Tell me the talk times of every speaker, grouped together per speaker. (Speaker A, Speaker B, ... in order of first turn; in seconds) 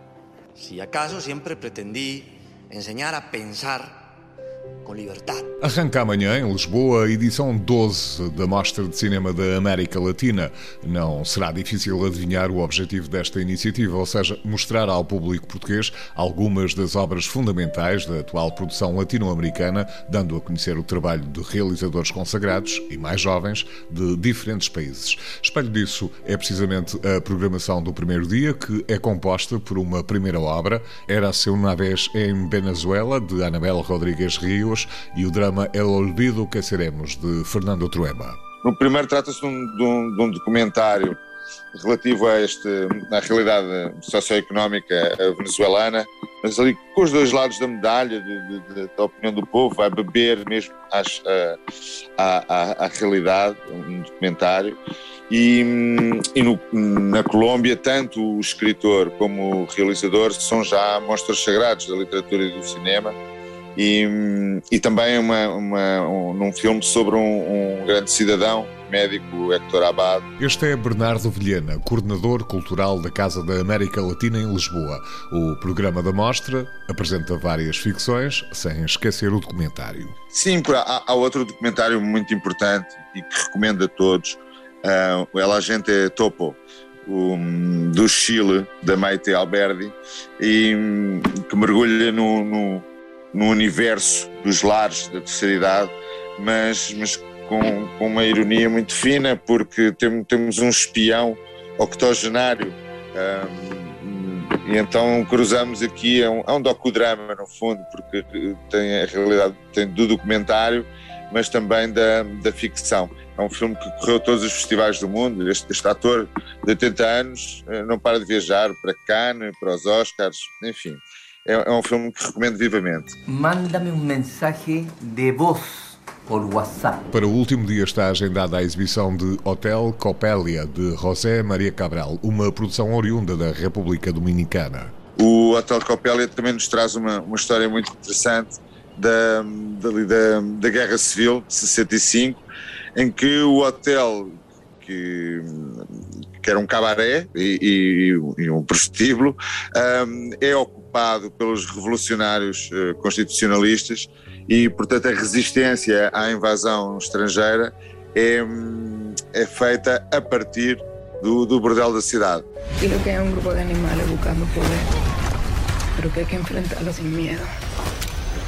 Speaker A: 0.5-4.0, 4.8-5.5
Speaker B: 5.6-38.4, 70.4-80.1, 127.1-134.9
Speaker C: 38.6-41.2, 41.7-51.6, 52.2-54.8, 55.3-63.1, 63.8-70.2, 80.3-123.1, 135.2-142.4, 142.9-145.8, 146.4-162.4
Speaker D: 123.3-127.0
Speaker E: 162.8-164.9, 166.0-167.5